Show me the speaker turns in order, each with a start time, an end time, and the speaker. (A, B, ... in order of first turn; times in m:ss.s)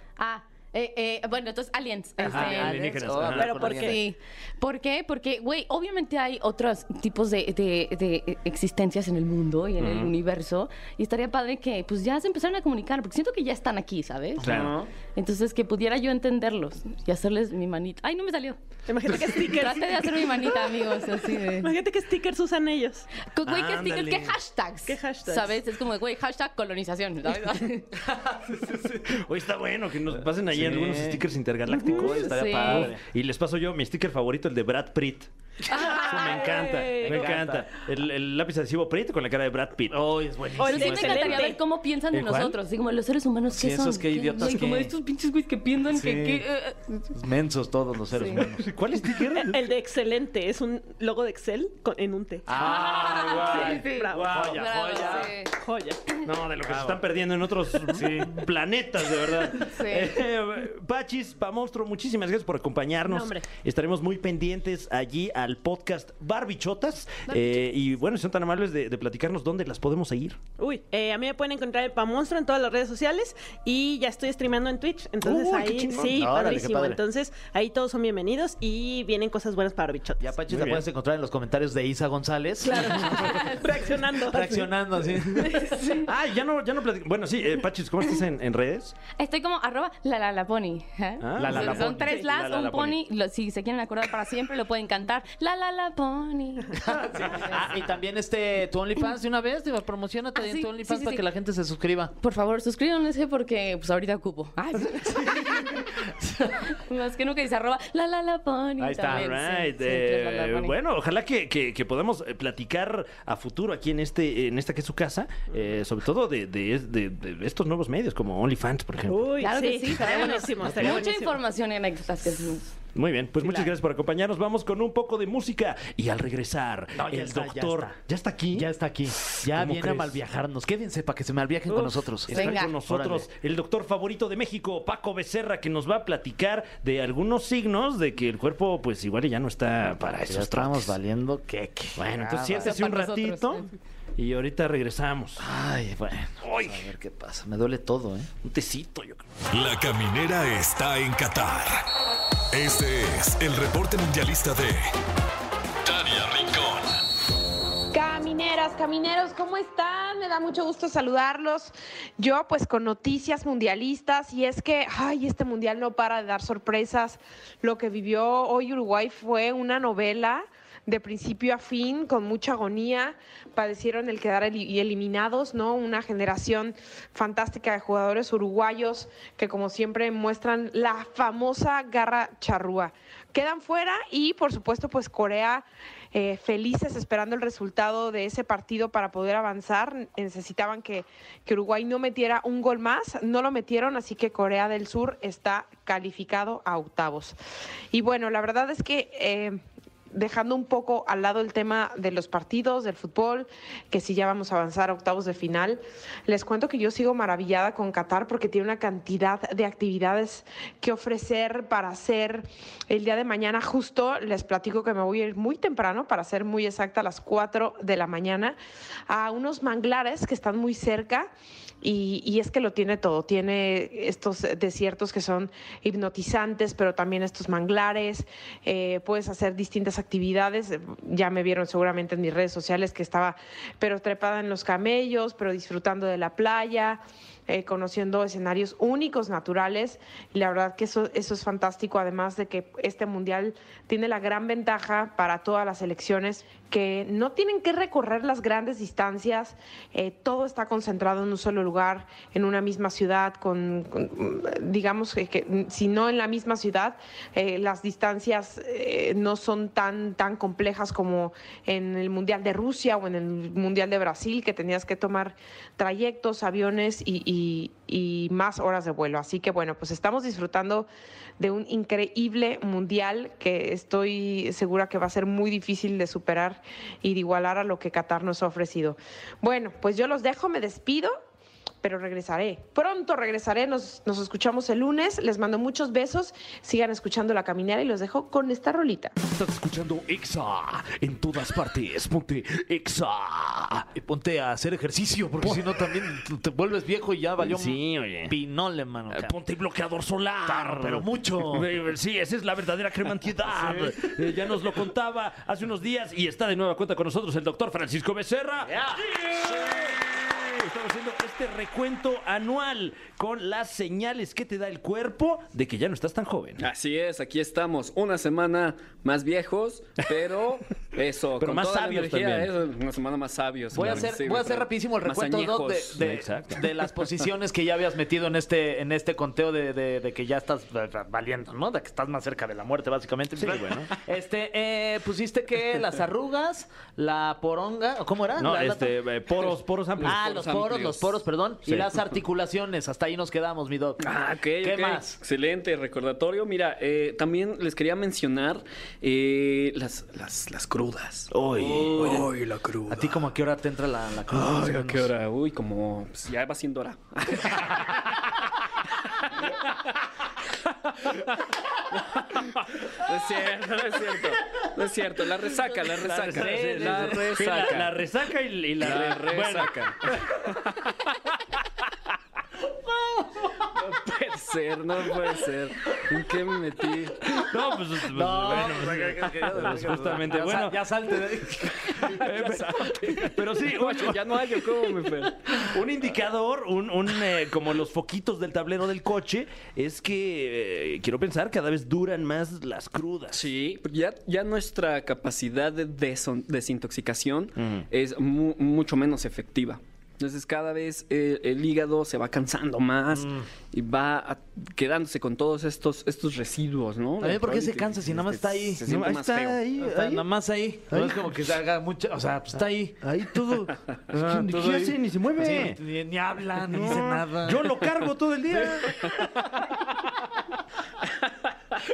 0:00.2-0:02.8 A
0:02.2-0:04.0 B
0:02.3-0:03.6 C
0:03.3-0:04.0 D
0:03.6-0:14.5 A
0:09.8-0:10.1 C
0:14.4-0:14.9 B
0:14.4-0:14.8 C
0:15.1-0:18.6 A
0:18.9-0:20.8 D
0:19.2-0:21.7 A
0:21.5-0:23.1 D
0:23.2-0:28.0 A
0:23.4-0:24.4 C
0:24.8-0:25.6 D
0:28.0-0:29.1 B
0:29.0-0:35.3 C
0:30.5-0:33.0 B
0:32.1-0:32.9 A
0:35.7-0:36.4 A
0:35.7-0:37.3 D
0:36.0-0:40.0 C
0:37.0-0:37.7 B
0:39.9-0:41.4 B
0:40.6-0:41.6 D
0:40.6-0:47.1 A
0:42.1-0:42.5 C
0:43.5-0:44.9 B
0:45.9-0:46.4 B
0:47.1-0:48.7 B
0:48.1-0:48.4 A
0:48.4-0:49.6 C
0:49.4-0:56.2 D
0:52.5-0:55.3 B
0:52.5-0:55.5 A
0:52.5-0:54.8 C
0:56.2-1:10.4 C
0:56.6-0:57.0 B
0:57.9-0:58.3 B
0:59.6-1:00.2 A
1:03.0-1:03.4 D
1:10.6-1:20.4 D
1:15.2-1:16.2 C
1:16.0-1:17.0 B
1:20.2-1:23.2 B
1:20.5-1:20.8 C
1:22.6-1:24.8 D
1:22.8-1:23.8 A
1:24.3-1:25.7 B
1:25.4-1:26.1 A
1:26.0-1:29.0 C
1:29.2-1:37.6 A
1:31.2-1:33.0 C
1:31.4-1:32.1 B
1:36.8-1:42.1 B
1:40.4-1:41.2 A
1:42.2-1:45.9 A
1:46.4-1:50.7 A
1:48.8-1:49.3 B
1:49.0-1:59.2 C
1:59.1-2:01.4 D
1:59.4-2:02.7 A
2:00.6-2:01.0 C
2:02.9-2:08.7 C
2:03.4-2:03.7 D
2:06.9-2:08.0 B
2:08.5-2:13.3 B
2:09.4-2:10.2 C
2:12.2-2:20.9 C
2:12.3-2:12.7 A
2:20.3-2:22.8 B
2:22.0-2:23.6 C
2:22.6-2:23.7 A
2:24.2-2:25.4 C
2:25.4-2:28.3 B
2:26.4-2:26.9 C
2:28.4-2:29.2 C
2:29.5-2:31.8 E
2:32.5-2:34.9 E
2:35.8-2:37.0 E
2:37.9-3:17.3 F
3:17.9-3:19.6 F
3:20.1-3:38.6 F
3:39.1-3:41.3 F
3:41.8-4:30.9 F
4:31.4-4:41.2 F
4:41.8-4:49.1 F
4:49.2-4:53.9 C
4:53.9-4:59.4 B
4:55.4-4:55.8 C
4:57.4-4:58.3 C
4:59.1-5:16.6 C
5:00.4-5:01.7 B
5:03.5-5:04.1 B
5:08.6-5:09.0 B
5:16.6-5:26.0 G
5:21.4-5:22.5 C
5:23.7-5:38.9 B
5:23.8-5:24.0 C
5:26.0-5:26.6 C
5:33.4-5:33.9 C
5:38.4-5:40.2 C
5:40.0-5:41.2 G
5:40.0-5:45.2 B
5:44.0-5:51.3 G
5:51.3-5:52.2 C
5:51.6-5:52.3 B
5:51.9-5:53.2 G
5:52.9-5:55.1 B
5:54.3-5:58.2 G
6:01.9-6:07.9 G
6:05.9-6:10.4 C
6:06.2-6:07.7 B
6:08.8-6:10.8 G
6:13.7-6:17.4 G
6:17.3-6:20.8 C
6:18.1-6:22.3 B
6:22.0-6:24.4 C
6:22.1-6:25.5 G
6:25.6-6:33.5 C
6:33.3-6:49.6 G
6:37.6-6:37.8 C
6:43.1-6:43.4 B
6:47.2-6:48.8 B
6:48.8-6:50.2 C
6:49.8-6:53.1 B
6:50.9-6:51.5 C
6:53.0-6:55.8 C
6:54.1-6:57.8 B
6:56.7-6:58.9 C
6:58.5-6:59.1 B